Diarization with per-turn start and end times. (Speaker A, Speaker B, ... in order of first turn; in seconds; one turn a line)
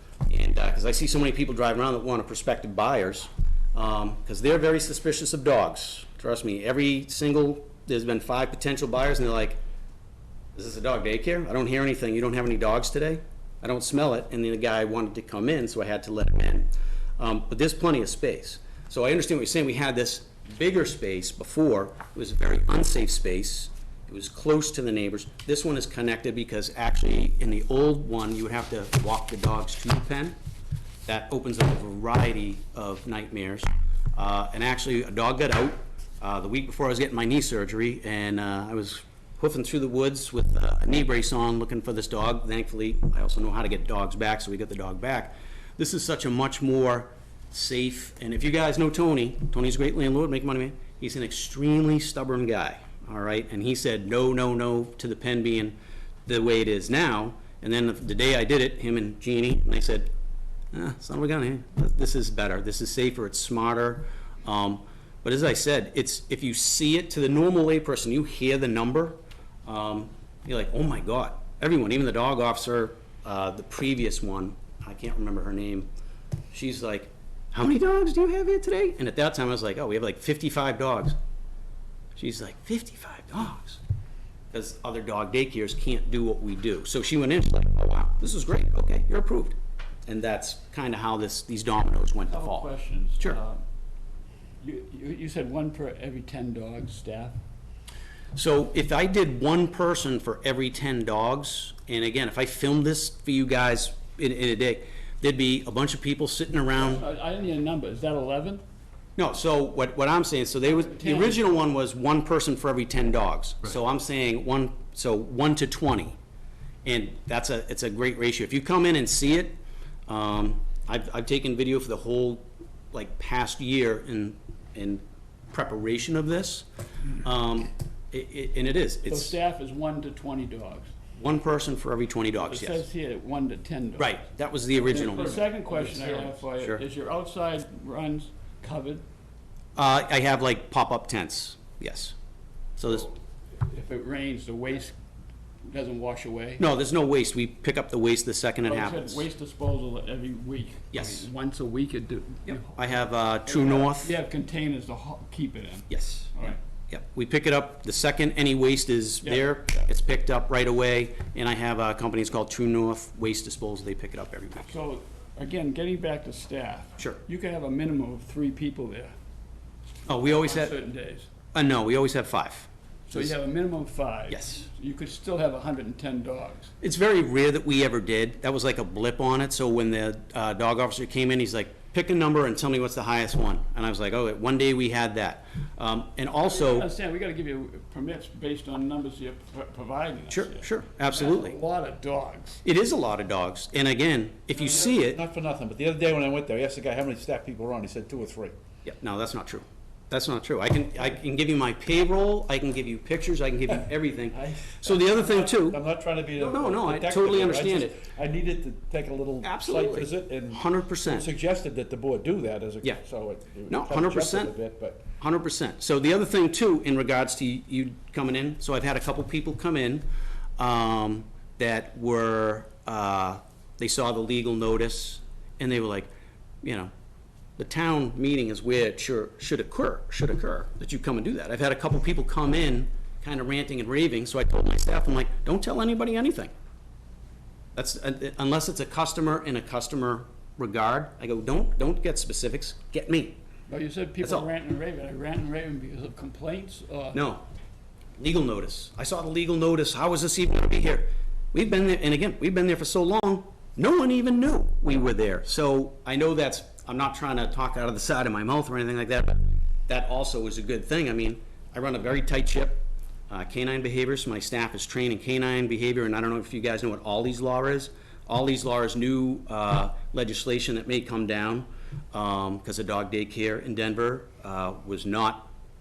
Speaker A: 0.2-9.6
Speaker A: 10.5-30.4
Speaker A: 31.1-60.1
Speaker A: 60.7-75.9
Speaker A: 76.5-81.1
Speaker A: 82.2-83.8
Speaker A: 84.5-89.5
Speaker A: 90.1-93.4
Speaker B: 92.3-93.6
Speaker B: 94.6-97.4
Speaker A: 98.3-107.0
Speaker B: 106.7-108.6
Speaker A: 109.2-116.2
Speaker B: 110.6-111.5
Speaker A: 116.8-126.7
Speaker A: 127.2-129.3
Speaker B: 129.1-130.9
Speaker A: 131.2-132.8
Speaker B: 132.4-134.2
Speaker A: 134.0-135.4
Speaker B: 134.8-139.0
Speaker C: 135.7-136.3
Speaker A: 136.6-136.8
Speaker A: 139.8-142.2
Speaker A: 142.8-143.1
Speaker B: 143.6-144.9
Speaker B: 145.7-146.6
Speaker A: 146.6-149.3
Speaker B: 148.6-152.8
Speaker A: 150.9-151.3
Speaker A: 152.4-154.1
Speaker B: 153.4-156.6
Speaker A: 155.9-164.7
Speaker B: 159.2-159.8
Speaker B: 164.7-169.1
Speaker A: 170.1-170.7
Speaker B: 170.2-171.3
Speaker A: 171.5-173.3
Speaker B: 173.1-176.7
Speaker A: 174.3-174.7
Speaker A: 176.8-186.9
Speaker B: 186.4-192.6
Speaker A: 190.3-191.6
Speaker A: 192.6-195.2
Speaker C: 194.6-198.5
Speaker A: 198.8-205.8
Speaker C: 204.4-215.1
Speaker A: 206.4-208.0
Speaker A: 209.4-211.3
Speaker A: 213.7-214.5
Speaker A: 215.2-220.0
Speaker A: 220.6-226.1
Speaker A: 226.6-226.9
Speaker A: 227.6-236.5
Speaker A: 237.7-243.4
Speaker B: 243.7-247.2
Speaker A: 244.2-244.5
Speaker A: 247.1-247.4
Speaker A: 248.2-275.5